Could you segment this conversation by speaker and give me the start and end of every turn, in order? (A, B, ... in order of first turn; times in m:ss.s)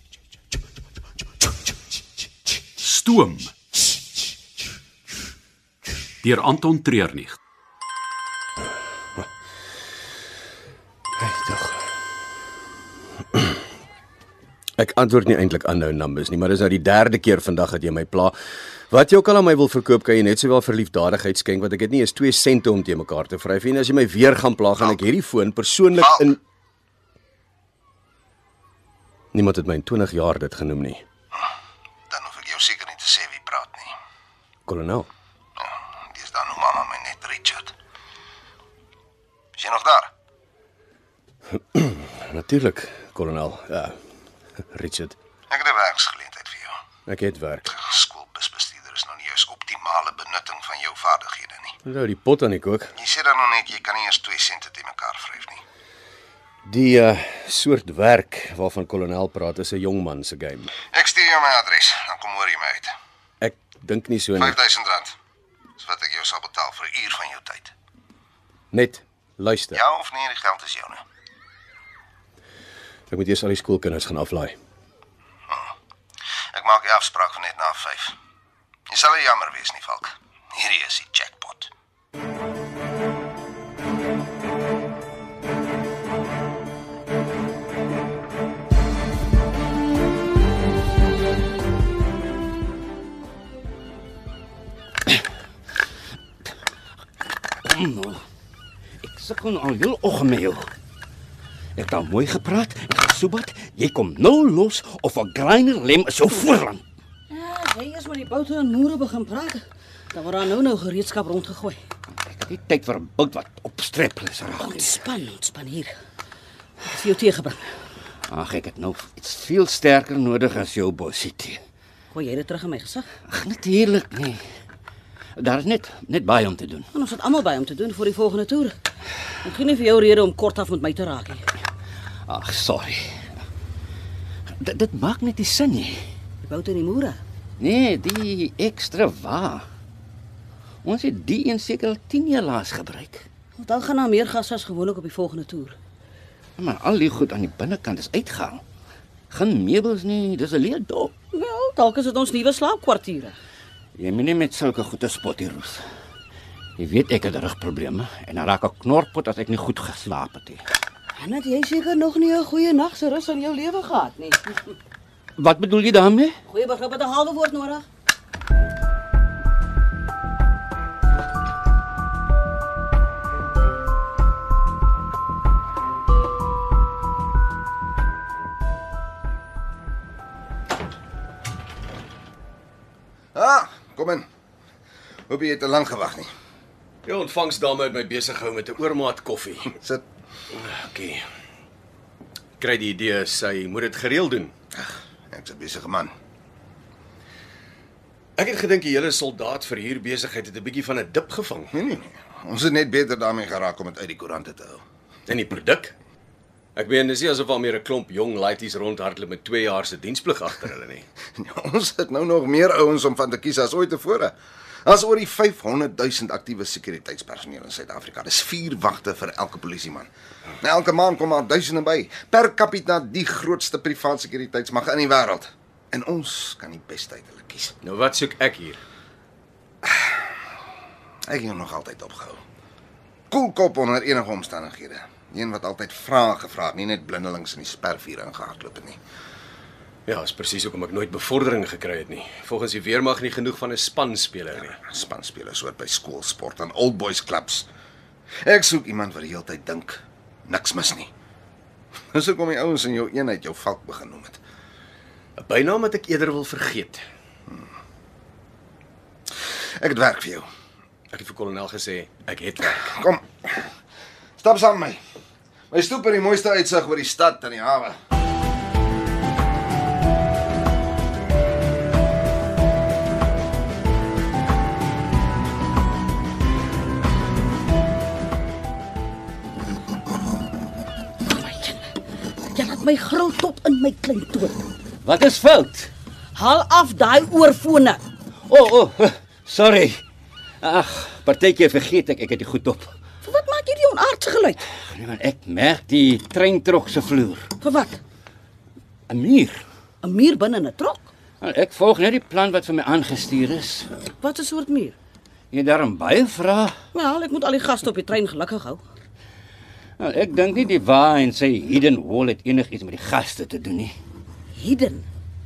0:02.8-0:03.5 A
0:06.2-0:07.4 A
0:11.2-0:11.8 B
0:14.8-0:18.4 B
0:18.9-0:26.3 B
0:29.3-0:31.0 B
0:32.1-0:33.9 C
0:34.7-0:35.1 B
0:35.6-0:37.7 C
0:39.6-0:40.1 C
0:41.8-0:44.0 B
0:44.7-0:45.2 B
0:45.5-0:46.8 C
0:47.1-0:47.6 B
0:47.7-0:51.8 C
0:51.9-0:52.9 B
0:53.0-0:55.6 C
0:56.7-1:00.7 B
1:00.9-1:02.9 C
1:03.4-1:04.5 B
1:04.4-1:05.1 C
1:05.8-1:07.7 C
1:08.7-1:09.8 B
1:09.7-1:11.0 C
1:13.1-1:14.6 B
1:16.5-1:18.1 C
1:18.9-1:21.7 C
1:37.6-1:38.2 D
1:39.0-1:40.7 D
1:41.8-1:46.8 D
1:47.3-1:51.8 E
1:52.3-1:55.0 D
1:54.6-1:55.9 E
1:56.8-1:57.7 E
1:58.3-2:01.6 D
2:02.1-2:03.1 E
2:03.3-2:04.4 D
2:05.4-2:06.9 D
2:06.9-2:08.8 E
2:09.4-2:11.5 E
2:12.3-2:13.3 D
2:14.6-2:16.0 D
2:16.4-2:17.2 E
2:17.6-2:19.6 D
2:20.8-2:23.2 D
2:23.6-2:25.8 E
2:26.6-2:28.6 D
2:29.3-2:31.1 D
2:31.3-2:33.4 E
2:34.0-2:35.8 D
2:36.8-2:40.6 D
2:41.2-2:44.6 E
2:45.4-2:46.4 D
2:46.5-2:47.8 E
3:03.4-3:04.3 C
3:05.3-3:06.3 C
3:07.1-3:09.7 B
3:09.8-3:10.0 C
3:10.6-3:11.2 B
3:12.6-3:14.5 B
3:14.7-3:16.1 C
3:18.4-3:21.7 B
3:21.7-3:24.8 C
3:25.3-3:26.0 B
3:26.8-3:31.0 B
3:31.4-3:40.1 C
3:40.6-3:47.8 C
3:47.9-3:48.8 B
3:51.3-3:52.4 C
3:53.3-3:59.0 C
4:00.1-4:04.8 B
4:04.8-4:07.7 C
4:08.4-4:11.1 C
4:12.1-4:14.4 C
4:15.4-4:17.0 B
4:19.8-4:20.5 C
4:21.1-4:22.7 B
4:22.6-4:23.6 C
4:24.4-4:25.0 C
4:25.7-4:28.0 C
4:41.2-4:41.9 E
4:42.5-4:44.6 E
4:45.0-4:45.9 D
4:46.4-4:48.0 E
4:48.5-4:50.0 D
4:50.6-4:52.9 D
4:53.2-4:54.6 E
4:54.8-4:57.5 D
4:57.6-4:58.0 E
4:59.1-4:59.6 D
5:00.0-5:01.1 E
5:01.4-5:03.9 D
5:04.2-5:05.0 E
5:05.5-5:06.8 D
5:06.9-5:08.8 E
5:10.0-5:14.0 D
5:14.5-5:15.1 E